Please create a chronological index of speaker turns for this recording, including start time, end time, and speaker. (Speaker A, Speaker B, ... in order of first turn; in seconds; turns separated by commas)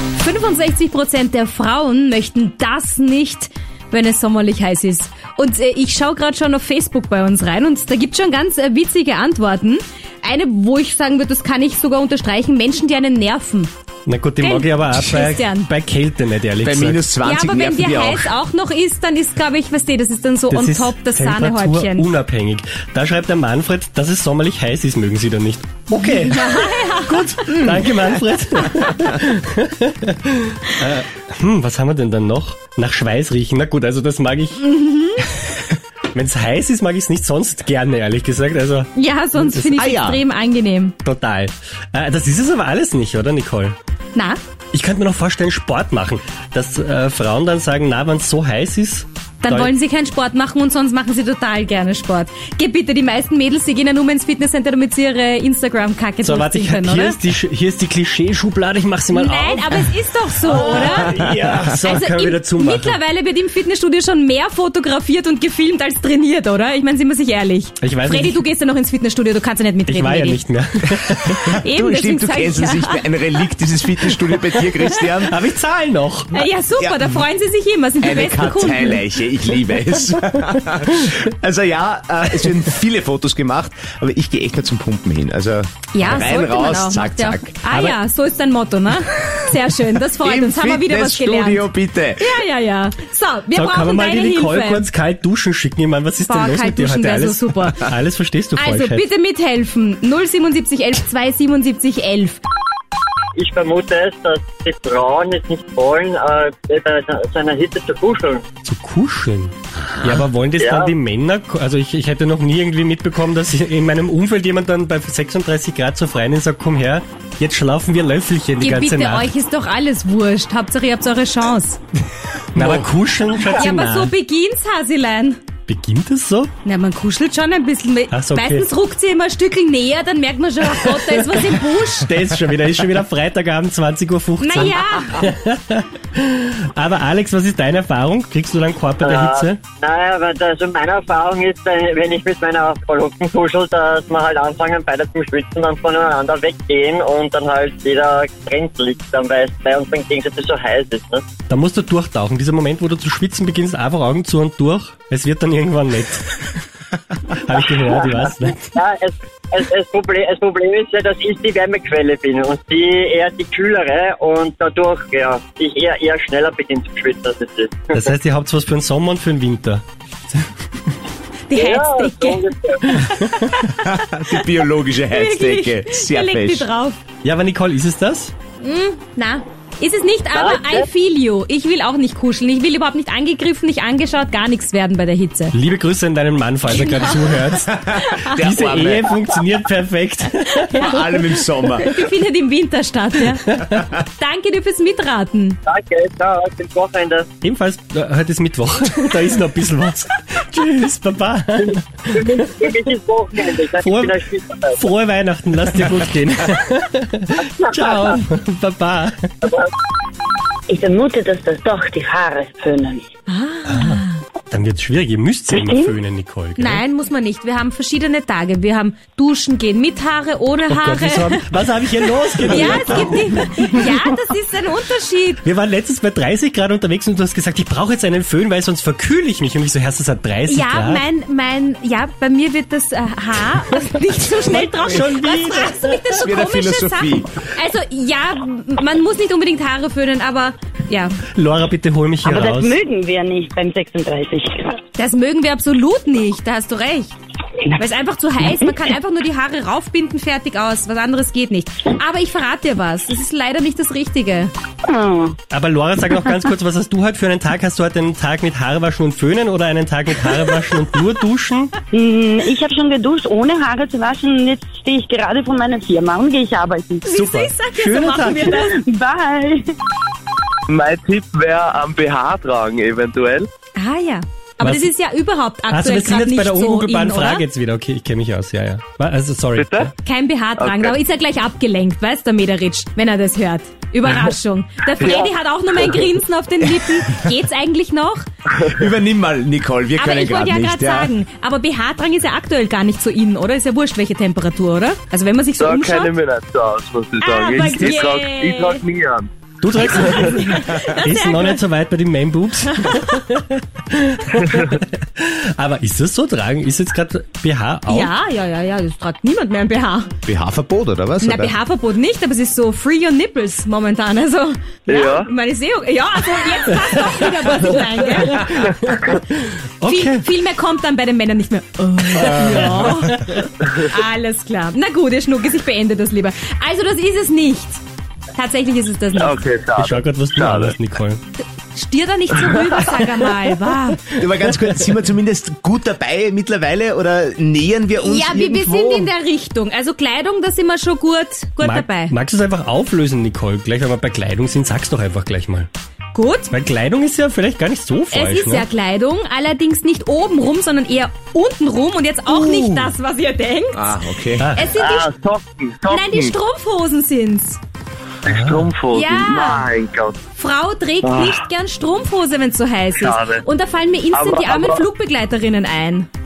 Speaker A: 0.2-13.7, Speaker B: 14.1-17.0, Speaker A: 14.4-15.7, Speaker C: 16.6-18.3, Speaker A: 17.2-22.1, Speaker B: 20.5-34.7, Speaker A: 26.1-27.3, Speaker A: 34.6-35.3, Speaker B: 36.1-39.7, Speaker A: 39.0-40.9, Speaker C: 39.8-40.2, Speaker B: 41.0-43.8, Speaker B: 44.7-49.7, Speaker A: 49.4-57.2, Speaker B: 56.2-63.0, Speaker A: 59.1-61.2, Speaker C: 60.9-61.6, Speaker A: 61.8-70.4, Speaker B: 67.8-68.4, Speaker B: 69.9-71.6, Speaker A: 71.5-73.1, Speaker C: 71.5-75.3, Speaker B: 75.2-76.5, Speaker A: 76.3-79.0, Speaker C: 78.0-87.5, Speaker A: 85.9-94.9, Speaker B: 87.7-88.0, Speaker C: 90.2-92.4, Speaker B: 93.5-99.1, Speaker A: 96.2-97.8, Speaker A: 98.6-102.4, Speaker D: 103.4-108.4, Speaker B: 108.7-119.3, Speaker D: 110.6-110.9, Speaker A: 118.6-121.8, Speaker B: 122.5-124.1, Speaker A: 123.5-125.4, Speaker B: 125.7-126.5, Speaker A: 126.6-132.1, Speaker B: 128.1-128.7, Speaker B: 130.8-131.5, Speaker B: 132.0-139.6, Speaker A: 134.4-135.3, Speaker D: 139.0-151.3, Speaker B: 151.5-156.6, Speaker B: 157.3-158.7, Speaker D: 157.8-168.1, Speaker B: 167.9-170.6, Speaker A: 171.5-172.4, Speaker D: 171.6-172.9, Speaker A: 172.9-173.8, Speaker C: 173.8-176.7, Speaker A: 175.1-177.0, Speaker B: 177.2-178.3, Speaker A: 178.6-185.6, Speaker D: 180.3-180.9, Speaker B: 185.5-187.7, Speaker A: 186.7-188.5, Speaker C: 187.7-189.2, Speaker B: 188.4-190.9, Speaker A: 190.6-191.1, Speaker C: 190.8-191.9, Speaker A: 191.8-195.6, Speaker D: 195.7-197.3, Speaker B: 197.4-202.7, Speaker D: 201.6-204.8, Speaker B: 203.8-204.2, Speaker B: 204.8-209.3, Speaker D: 207.7-208.1, Speaker D: 209.4-209.7, Speaker E: 210.7-213.0, Speaker A: 213.3-214.2, Speaker B: 213.7-216.8, Speaker E: 215.5-215.9, Speaker A: 216.6-221.4, Speaker B: 220.7-223.9, Speaker A: 222.5-225.4, Speaker B: 225.4-231.0, Speaker A: 230.5-241.2, Speaker B: 234.5-236.2, Speaker C: 236.2-237.3, Speaker B: 241.4-242.8, Speaker E: 242.2-244.8, Speaker A: 245.0-247.1, Speaker A: 247.7-254.5, Speaker E: 254.8-255.4, Speaker B: 255.5-261.7, Speaker E: 261.9-267.0, Speaker A: 267.0-268.8, Speaker B: 267.1-268.5, Speaker E: 268.5-269.7, Speaker F: 270.7-273.5, Speaker A: 273.8-277.4, Speaker B: 274.6-274.9, Speaker B: 275.7-279.9, Speaker F: 279.6-279.9, Speaker A: 280.0-288.2, Speaker F: 280.6-281.0, Speaker F: 285.0-285.8, Speaker C: 288.7-291.1, Speaker A: 290.0-296.1, Speaker F: 295.6-299.3, Speaker A: 297.2-298.8, Speaker B: 299.6-308.1, Speaker A: 299.8-301.6, Speaker F: 299.8-300.5, Speaker A: 302.7-303.0, Speaker A: 307.9-310.1, Speaker C: 310.3-311.5, Speaker A: 311.2-318.7, Speaker F: 314.9-315.3, Speaker B: 318.3-320.2, Speaker A: 319.9-327.8, Speaker B: 322.3-323.4, Speaker A: 328.4-329.4, Speaker F: 329.1-330.8, Speaker B: 329.8-331.2, Speaker A: 331.7-334.0, Speaker F: 332.4-333.0, Speaker C: 334.2-339.1, Speaker A: 338.0-342.1, Speaker B: 341.6-345.7, Speaker A: 346.1-346.5, Speaker B: 346.5-348.7, Speaker A: 348.1-353.9, Speaker C: 352.3-352.9, Speaker C: 353.8-354.5, Speaker B: 354.4-354.7, Speaker A: 354.6-355.1, Speaker F: 354.8-356.4, Speaker A: 355.9-357.6, Speaker F: 358.2-360.2, Speaker B: 358.3-358.7, Speaker A: 358.9-359.7, Speaker A: 360.4-366.1, Speaker F: 361.0-361.4, Speaker F: 363.0-363.4, Speaker F: 364.1-364.9